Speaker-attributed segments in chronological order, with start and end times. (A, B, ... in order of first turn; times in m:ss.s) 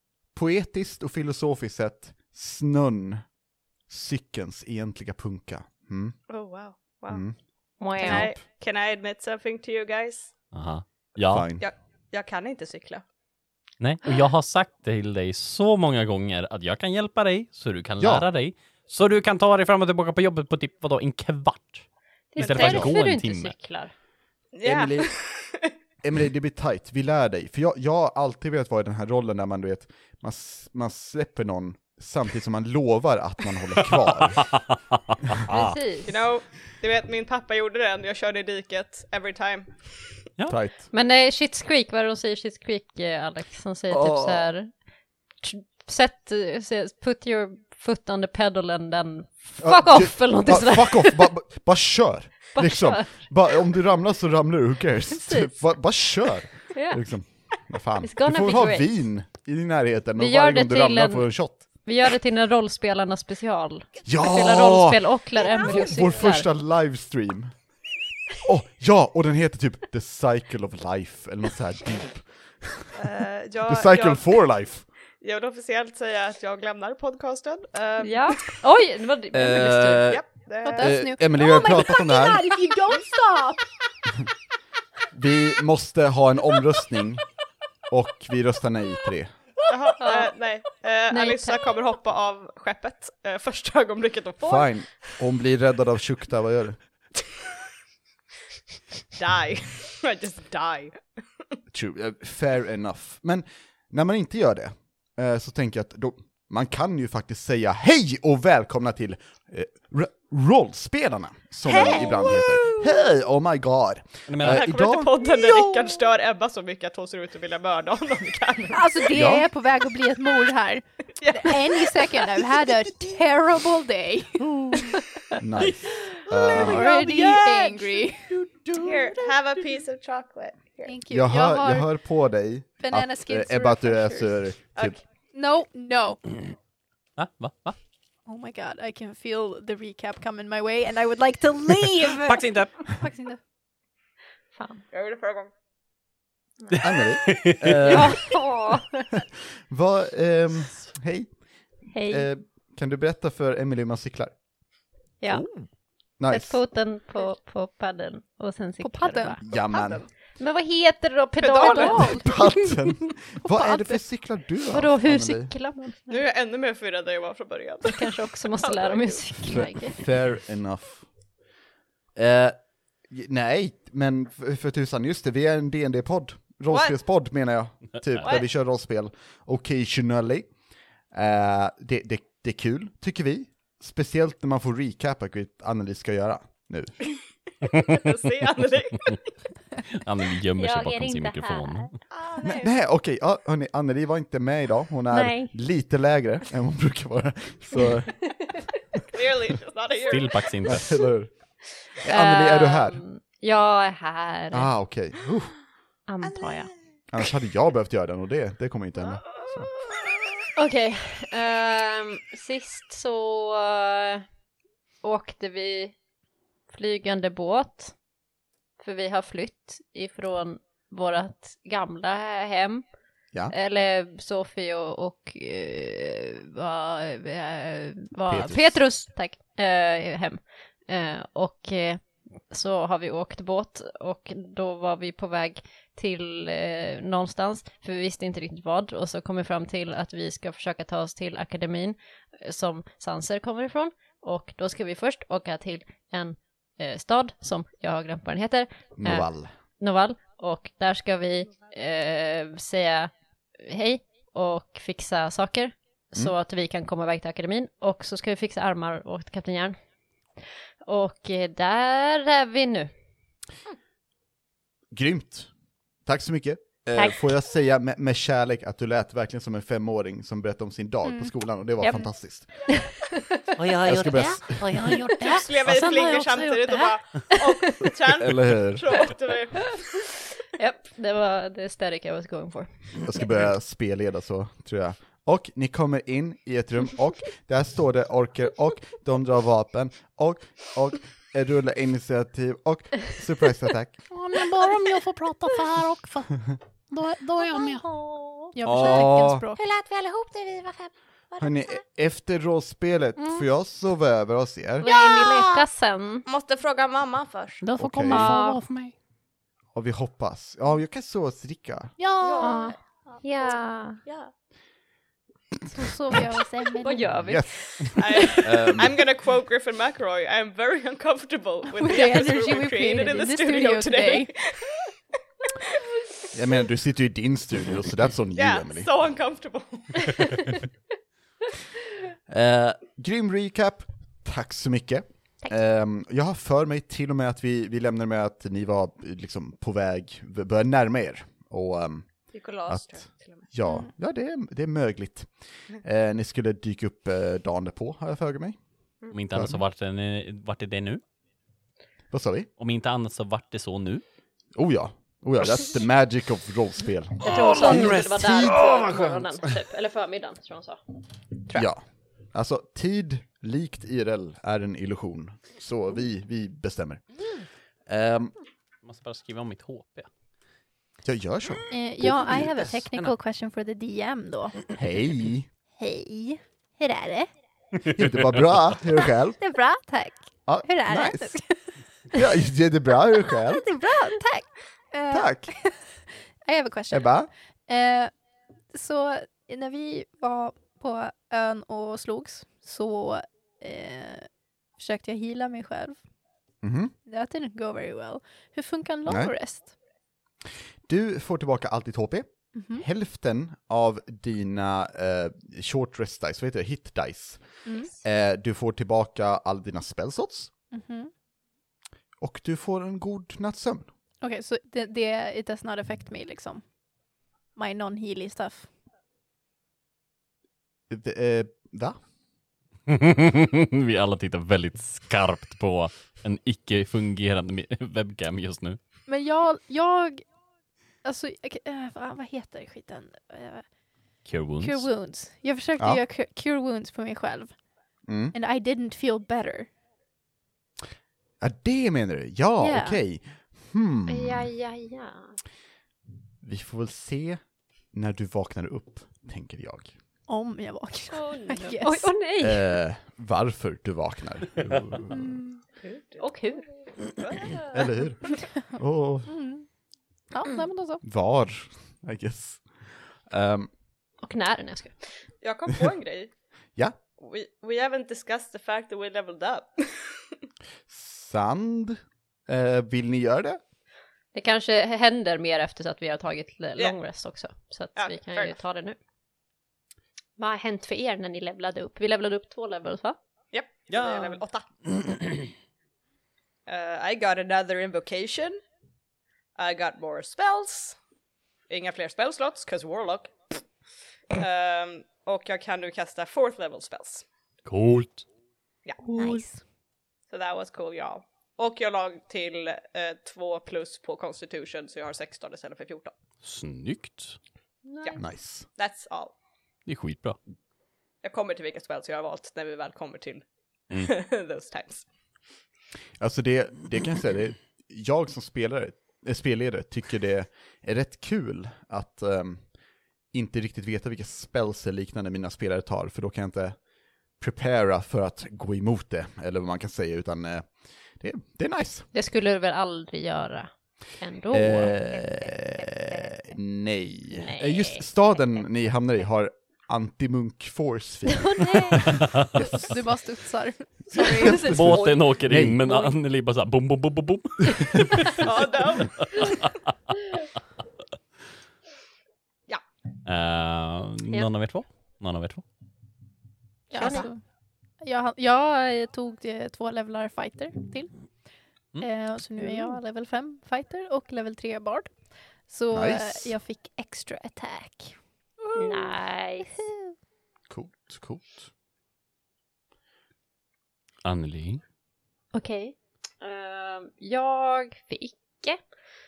0:00.3-0:03.2 A
0:03.9-0:06.2 A
0:06.3-0:07.2 B
0:07.1-0:07.4 A
0:07.8-0:08.3 C
0:08.0-0:08.4 A
0:08.0-0:10.3 B
0:10.5-0:11.5 D
0:11.2-0:11.6 A
0:11.6-0:13.0 B
0:13.8-0:21.8 D
0:18.0-0:18.3 A
0:22.3-0:23.9 C
0:22.4-0:23.6 D
0:22.4-0:22.9 B
0:22.6-0:22.9 A
0:24.5-0:25.7 B
0:24.6-0:25.1 A
0:26.0-0:34.4 A
0:34.2-0:35.8 D
0:35.5-0:36.1 C
0:36.0-0:40.2 B
0:40.5-0:40.9 A
0:40.9-0:44.7 C
0:43.9-0:44.5 A
0:45.4-0:51.3 C
0:49.6-1:01.6 A
0:52.5-0:53.3 C
0:55.3-0:55.5 C
0:56.7-0:57.0 C
0:58.0-0:58.9 C
1:00.2-1:06.5 C
1:04.0-1:07.5 A
1:08.4-1:12.8 A
1:12.9-1:14.3 B
1:13.7-1:14.9 A
1:15.2-1:18.6 B
1:18.0-1:20.2 C
1:19.3-1:22.5 A
1:20.1-1:20.9 B
1:20.6-1:23.7 E
1:25.1-1:27.2 A
1:27.9-1:29.3 A
1:29.7-1:34.7 B
1:30.0-1:30.3 C
1:31.1-1:31.7 C
1:34.4-1:36.8 A
1:39.1-1:41.0 B
1:41.7-1:55.1 A
1:51.6-1:53.0 B
1:54.3-1:54.7 D
1:54.4-1:59.1 B
1:55.2-1:56.1 E
1:58.7-2:04.5 E
1:59.1-1:59.4 A
2:01.2-2:02.3 B
2:05.4-2:06.8 A
2:06.5-2:08.1 B
2:06.5-2:08.3 E
2:08.7-2:10.9 B
2:10.8-2:11.9 E
2:11.1-2:15.0 A
2:12.8-2:14.5 E
2:15.3-2:16.2 E
2:17.2-2:17.8 D
2:18.2-2:23.4 E
2:22.2-2:22.8 D
2:24.6-2:24.8 C
2:24.9-2:25.5 B
2:26.7-2:28.2 D
2:26.8-2:28.3 A
2:27.8-2:29.1 C
2:29.7-2:31.3 A
2:31.9-2:32.3 C
2:32.0-2:34.3 A
2:35.2-2:35.5 C
2:36.2-2:36.6 A
2:36.3-2:39.4 C
2:38.8-2:40.0 E
2:39.4-2:40.0 A
2:39.7-2:40.0 B
2:40.4-2:42.5 C
2:41.4-2:42.1 B
2:41.5-2:42.5 E
2:42.2-2:45.5 A
2:43.4-2:44.0 E
2:44.7-2:46.2 C
2:46.1-2:49.3 B
2:47.8-2:50.0 C
2:49.4-2:51.1 A
2:52.2-3:00.5 A
2:56.7-2:57.0 B
3:01.1-3:07.0 A
3:07.7-3:09.3 B
3:09.9-3:12.0 D
3:10.6-3:11.9 C
3:12.1-3:12.7 B
3:12.6-3:18.2 A
3:15.1-3:15.5 C
3:19.1-3:20.6 B
3:20.0-3:21.0 D
3:20.6-3:21.3 A
3:22.0-3:23.0 A
3:22.1-3:24.7 C
3:24.5-3:25.6 A
3:26.1-3:26.7 C
3:26.2-3:26.6 B
3:27.1-3:29.7 A
3:30.5-3:34.2 C
3:35.0-3:35.9 C
3:36.7-3:37.9 C
3:38.8-3:42.8 C
3:43.5-4:09.3 C
3:48.3-3:48.7 A
4:09.0-4:09.5 A
4:09.8-4:19.8 C
4:20.8-4:22.9 C
4:24.9-4:25.5 A
4:26.0-4:32.5 A
4:26.9-4:27.3 C
4:31.0-4:31.3 E
4:31.8-4:32.1 C
4:32.7-4:33.4 C
4:33.6-4:37.0 F
4:33.8-4:34.8 A
4:35.0-4:35.4 C
4:35.2-4:40.0 B
4:38.2-4:38.9 A
4:40.5-4:42.7 C
4:43.0-4:54.0 A
4:54.1-4:57.9 F
4:58.2-4:58.5 B
4:58.5-4:59.6 E
4:58.6-4:59.4 A
4:59.5-5:01.8 B
5:01.4-5:04.8 A
5:04.8-5:06.2 C
5:04.8-5:05.6 B
5:06.2-5:07.6 B
5:07.6-5:08.9 F
5:07.8-5:08.4 A
5:08.0-5:08.6 C
5:09.7-5:11.9 A
5:12.0-5:12.7 F
5:12.2-5:14.3 B
5:12.4-5:14.0 C
5:15.7-5:17.1 E
5:16.8-5:18.6 C
5:17.2-5:19.0 A
5:18.0-5:24.7 B
5:21.7-5:24.3 E
5:26.3-5:28.9 A
5:28.4-5:30.6 B
5:32.3-5:42.1 A
5:42.3-5:43.4 B
5:42.7-5:45.3 A
5:45.8-5:48.6 A
5:49.1-5:51.0 D
5:49.3-5:49.6 A
5:52.1-5:52.5 A
5:52.6-5:54.0 D
5:54.5-5:59.2 A
5:57.2-6:00.8 C
6:01.5-6:07.0 A
6:07.8-6:08.3 A
6:08.8-6:10.1 D
6:11.0-6:12.8 A
6:11.7-6:14.6 E
6:14.7-6:15.5 A
6:15.8-6:17.3 E
6:17.9-6:19.4 A
6:19.4-6:22.2 E
6:20.4-6:21.3 A
6:22.1-6:23.6 A
6:23.3-6:25.8 E
6:25.1-6:25.5 A
6:26.4-6:28.1 E
6:26.9-6:27.3 A
6:28.7-6:36.0 E
6:36.6-6:36.9 A
6:37.0-6:39.8 E
6:39.1-6:39.3 A
6:40.9-6:47.4 A
6:42.5-6:42.8 E
6:47.6-6:47.9 E
6:48.0-6:50.5 A
6:50.7-6:51.1 E
6:52.2-6:53.9 A
6:54.2-6:56.6 E
6:57.5-6:58.7 E
7:00.9-7:02.0 A
7:02.9-7:08.8 D
7:09.1-7:10.2 E
7:11.0-7:13.6 E
7:14.2-7:14.9 D
7:14.6-7:17.6 E
7:18.1-7:18.3 A
7:18.3-7:19.7 E
7:21.4-7:24.5 A
7:22.6-7:23.0 E
7:24.1-7:25.4 C
7:26.4-7:27.4 A
7:27.9-7:29.9 A
7:30.3-7:32.1 E
7:31.1-7:32.7 C
7:32.4-7:35.2 A
7:35.1-7:35.6 E
7:35.8-7:36.3 B
7:36.2-7:36.6 C
7:37.0-7:37.9 B
7:37.7-7:39.3 A
7:39.3-7:39.7 E
7:40.3-7:41.0 E
7:41.0-7:43.7 A
7:44.2-7:45.0 C
7:45.4-7:46.3 B
7:47.2-7:50.4 B
7:50.9-7:53.6 A
7:54.3-7:59.0 C
7:58.0-7:58.5 B
8:00.4-8:03.2 C
8:03.5-8:04.6 B
8:03.9-8:04.4 D
8:06.6-8:08.6 B
8:09.6-8:11.0 B
8:11.7-8:13.6 B
8:14.3-8:17.2 B
8:17.6-8:18.2 D
8:19.0-8:19.6 E
8:20.3-8:26.1 B
8:26.4-8:27.4 D
8:27.8-8:28.2 C
8:28.2-8:28.7 A
8:28.8-8:29.3 B
8:29.8-8:30.4 D
8:31.2-8:35.0 B
8:36.2-8:42.7 A
8:43.3-8:46.8 A
8:47.4-8:52.1 A
8:52.1-8:55.0 C
8:54.5-9:02.2 A
8:57.3-8:58.0 C
9:01.3-9:02.0 C
9:02.1-9:02.6 D
9:02.6-9:04.8 E
9:04.2-9:06.1 C
9:04.5-9:08.5 D
9:04.7-9:05.8 A
9:08.4-9:09.6 B
9:09.0-9:09.7 D
9:13.2-9:15.6 D
9:16.9-9:17.4 E
9:17.0-9:17.3 C
9:17.0-9:17.2 B
9:18.0-9:21.1 E
9:22.0-9:25.1 E
9:22.6-9:22.9 C
9:25.6-9:28.2 E
9:25.9-9:26.6 A
9:28.7-9:29.7 C
9:29.7-9:30.1 E
9:30.7-9:31.7 A
9:34.2-9:34.8 D
9:35.5-9:38.8 C